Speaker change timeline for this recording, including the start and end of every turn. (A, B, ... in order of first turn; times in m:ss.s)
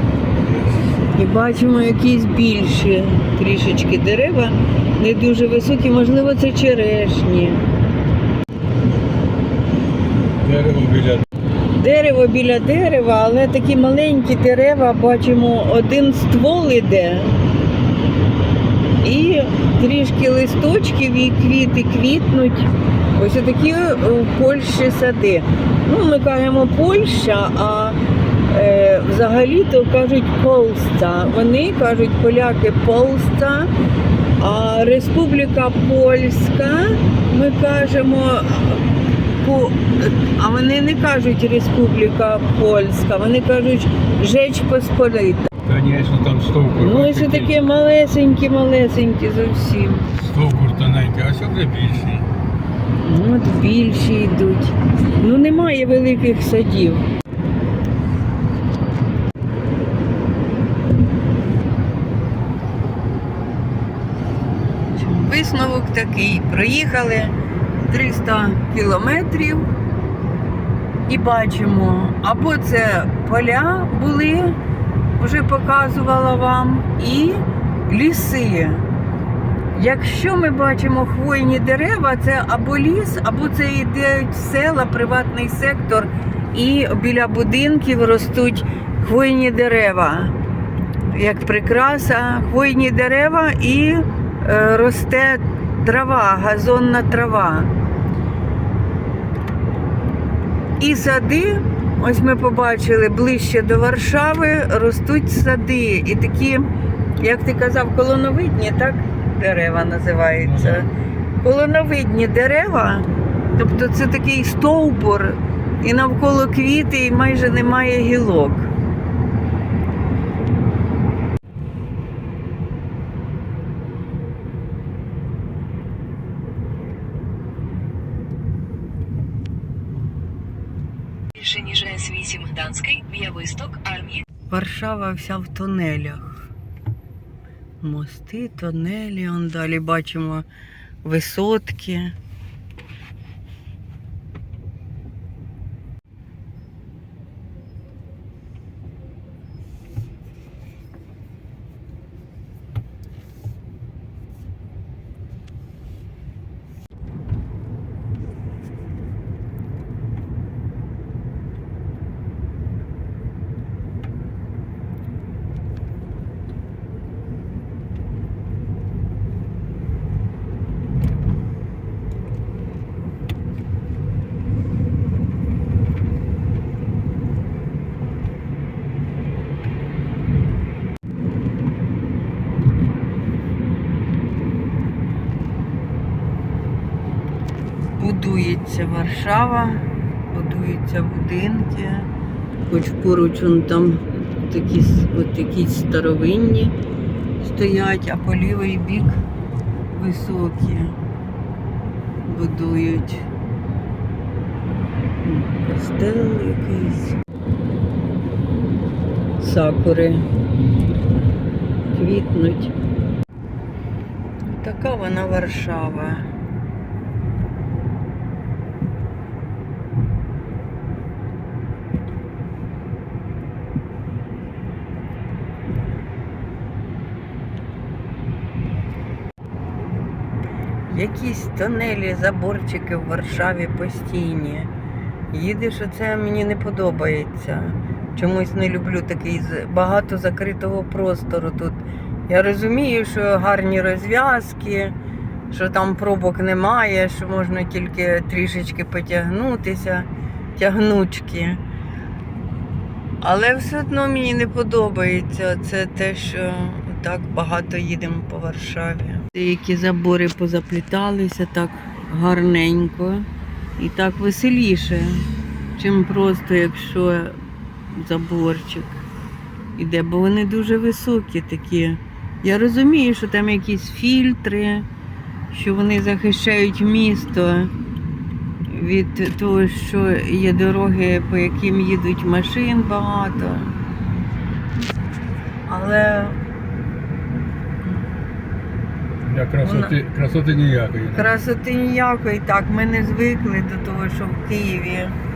0:00.3-0:00.9 A
0:01.1-0:07.6 B
0:10.4-0:11.2 A
0:11.7-0:17.4 B
0:19.0-0:28.0 B
0:28.5-0:33.7 B
0:34.4-0:45.5 B
0:45.6-0:47.6 A
0:46.8-0:50.1 B
0:50.1-0:52.3 A
0:53.0-0:57.1 B
1:04.9-1:09.7 B
1:11.1-1:14.6 B
1:15.2-1:18.8 B
1:19.7-1:30.3 B
1:31.0-1:37.7 B
1:40.8-1:50.9 B
1:50.4-1:50.8 A
1:51.4-1:58.7 B
2:11.4-2:14.2 C
2:14.5-2:16.4 B
2:17.8-2:20.4 B
2:21.0-2:22.2 B
3:08.0-3:12.1 B
3:12.6-3:16.7 B
3:17.4-3:19.2 B
3:19.9-3:21.0 B
3:22.2-3:23.3 B
3:25.2-3:27.2 B
3:29.4-3:30.3 B
3:31.9-3:32.7 B
3:34.5-3:36.3 B
3:50.9-3:54.7 B
3:55.3-4:05.0 B
4:05.5-4:11.6 B
4:13.2-4:27.4 B
4:27.9-4:29.0 B
4:29.8-4:34.8 B
4:35.5-4:37.7 B
4:38.6-4:43.7 B
4:45.7-4:46.4 B
4:49.2-4:51.3 A
4:49.6-4:49.9 B
4:51.1-4:55.2 B